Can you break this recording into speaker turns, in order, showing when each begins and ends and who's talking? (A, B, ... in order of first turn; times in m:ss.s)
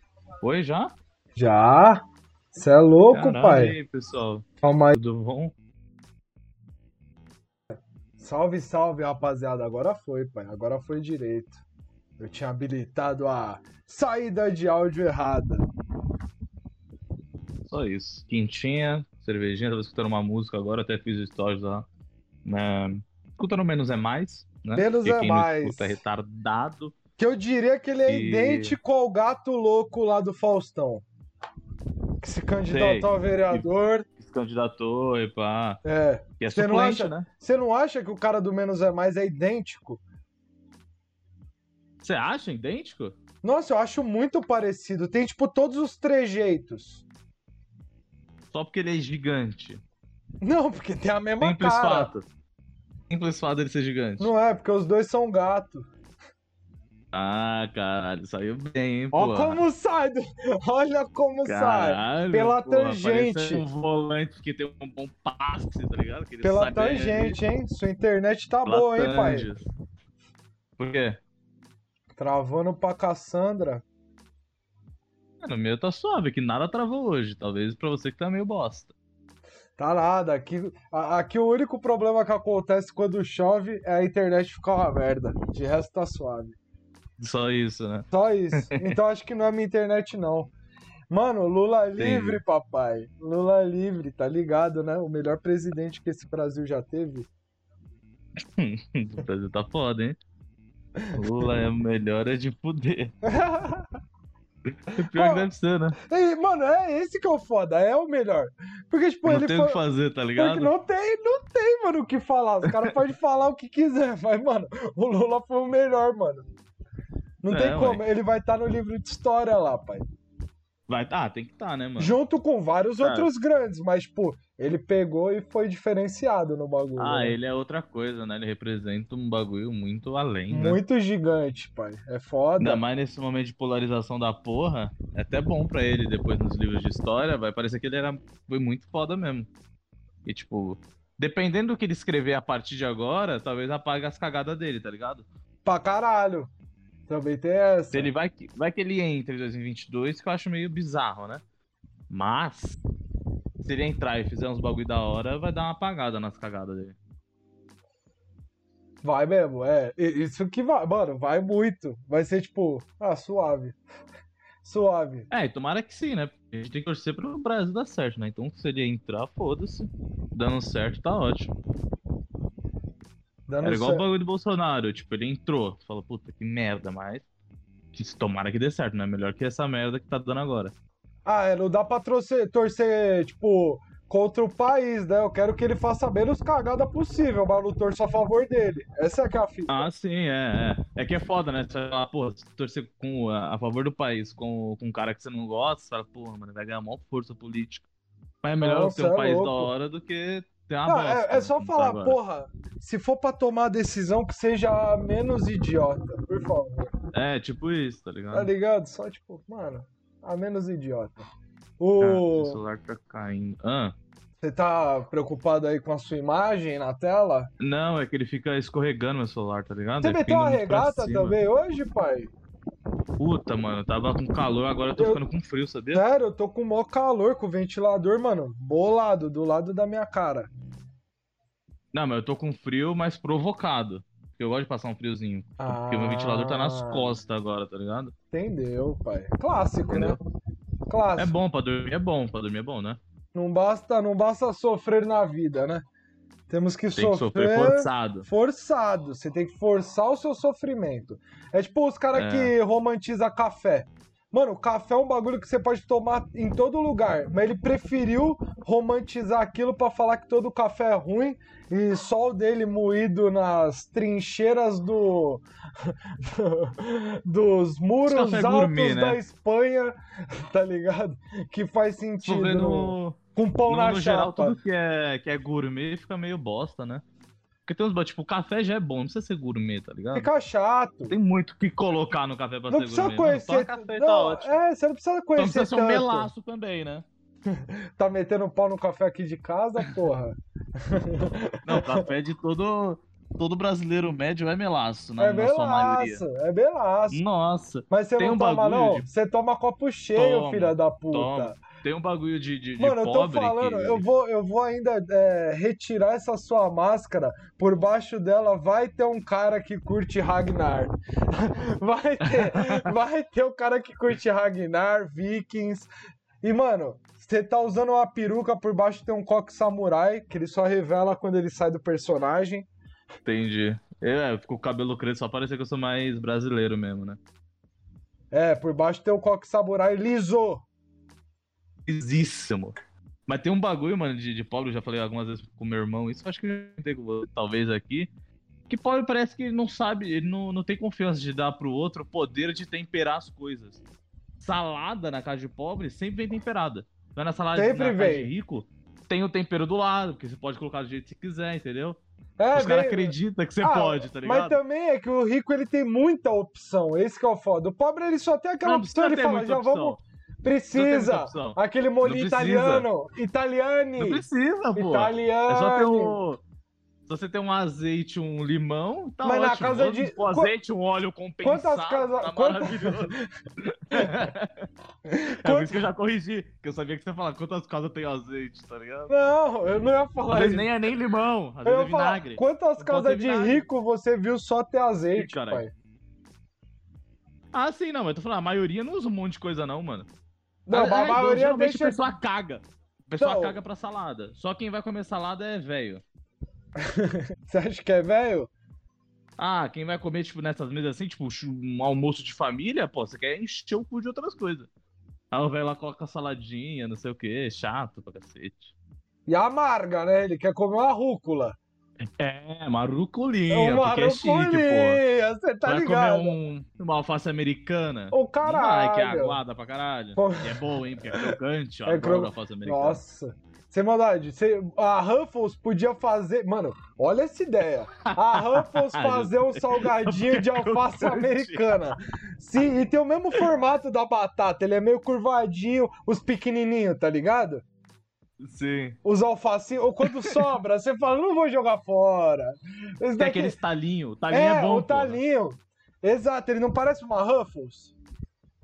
0:00.4-0:00.9 A
0:01.4-0:02.0 B
0:02.5-0:03.8 B
0:03.1-0:05.5 A
0:04.6-0:05.0 B
0:08.2-0:11.6 B
0:12.2-0:15.7 B
0:17.7-0:21.9 A
0:22.4-0:26.9 A
0:24.7-0:26.0 B
0:27.2-0:31.0 B
0:28.1-0:28.8 A
0:32.2-0:34.1 B
0:32.7-0:33.7 A
0:34.2-0:35.8 A
0:35.8-0:40.0 B
0:36.4-0:37.3 A
0:42.0-0:43.2 A
0:43.4-0:47.0 B
0:48.5-0:49.8 A
0:50.4-0:52.1 B
0:51.4-0:52.2 A
0:53.1-0:54.3 A
0:54.2-0:55.8 B
0:57.1-0:59.6 A
0:59.1-1:03.6 B
1:01.4-1:07.4 A
1:06.4-1:09.5 B
1:08.6-1:09.6 A
1:10.8-1:11.2 A
1:12.2-1:13.8 B
1:15.4-1:18.9 A
1:19.8-1:26.6 B
1:27.2-1:29.0 A
1:28.1-1:30.5 B
1:31.1-1:37.3 B
1:32.0-1:32.4 A
1:38.6-1:40.2 A
1:41.2-1:43.1 A
1:43.2-1:43.9 B
1:44.9-1:46.0 A
1:45.1-1:45.5 B
1:46.1-1:49.8 B
1:49.2-1:50.7 A
1:50.4-1:56.5 B
1:52.6-1:52.9 A
1:57.4-2:00.0 B
1:57.5-1:58.0 A
2:00.9-2:02.2 A
2:02.0-2:07.4 B
2:03.0-2:03.3 A
2:07.0-2:10.8 A
2:10.5-2:12.8 B
2:12.6-2:19.5 A
2:20.2-2:25.2 A
2:25.6-2:26.5 B
2:27.1-2:28.1 B
2:27.9-2:31.4 A
2:32.1-2:32.8 A
2:33.6-2:37.0 A
2:39.0-2:43.8 B
2:44.6-2:45.3 B
2:45.3-2:51.5 A
2:53.5-2:54.0 B
2:53.6-2:57.2 A
2:57.9-3:00.7 A
3:01.2-3:09.8 B
3:09.7-3:17.8 A
3:18.4-3:22.2 A
3:18.6-3:19.7 B
3:20.9-3:26.9 B
3:27.1-3:28.5 A
3:28.3-3:31.2 B
3:31.8-3:32.6 B
3:32.0-3:33.9 A
3:34.4-3:37.5 B
3:37.6-3:41.4 A
3:40.0-3:42.3 B
3:43.2-3:46.0 A
3:45.9-3:50.5 B
3:51.9-3:58.1 A
3:55.6-3:57.2 B
3:58.3-4:00.2 B
3:59.9-4:00.2 A
4:00.9-4:01.3 B
4:01.2-4:03.0 A
4:03.3-4:05.8 B
4:06.5-4:29.9 B
4:06.9-4:08.3 A
4:12.1-4:12.5 A
4:28.0-4:29.2 A
4:30.5-4:34.6 B
4:32.2-4:37.0 A
4:37.7-4:40.3 A
4:40.1-4:41.1 B
4:41.1-4:44.6 A
4:42.7-4:46.3 B
4:45.4-4:47.0 A
4:47.5-4:52.1 B
4:51.6-4:56.2 A
4:55.2-4:57.2 B
4:57.1-4:59.1 A
4:57.9-5:01.6 B
5:00.1-5:04.0 A
5:02.8-5:15.9 B
5:12.2-5:12.8 A
5:16.4-5:22.7 B
5:23.2-5:27.2 A
5:28.3-5:30.6 B
5:31.8-5:32.8 A
5:33.3-5:38.1 A
5:38.7-5:43.8 A
5:44.4-5:52.0 A
5:47.6-5:48.3 B
5:52.4-6:06.2 B
5:52.5-5:54.6 A
5:58.6-6:00.0 A
6:00.7-6:02.8 A
6:04.0-6:06.4 A
6:07.1-6:13.1 A
6:09.2-6:10.5 B
6:11.4-6:13.2 B
6:13.6-6:14.7 A
6:15.0-6:15.8 B
6:15.4-6:19.1 A
6:19.1-6:20.8 B
6:20.3-6:23.7 A
6:21.6-6:25.7 B
6:25.2-6:25.6 A
6:27.5-6:30.1 A
6:30.7-6:32.0 B
6:30.7-6:36.0 A
6:33.2-6:33.6 B
6:36.8-6:38.5 B
6:39.4-6:44.7 A
6:45.3-6:48.7 A
6:49.3-6:51.6 B
6:52.2-6:55.0 A
6:53.5-6:56.4 B
6:55.6-7:03.0 A
6:58.1-6:59.4 B
7:00.2-7:01.3 B
7:01.8-7:17.6 B
7:08.1-7:11.8 A
7:18.4-7:19.0 A
7:19.0-7:23.5 B
7:20.2-7:20.4 A
7:23.2-7:25.2 A
7:24.3-7:27.9 B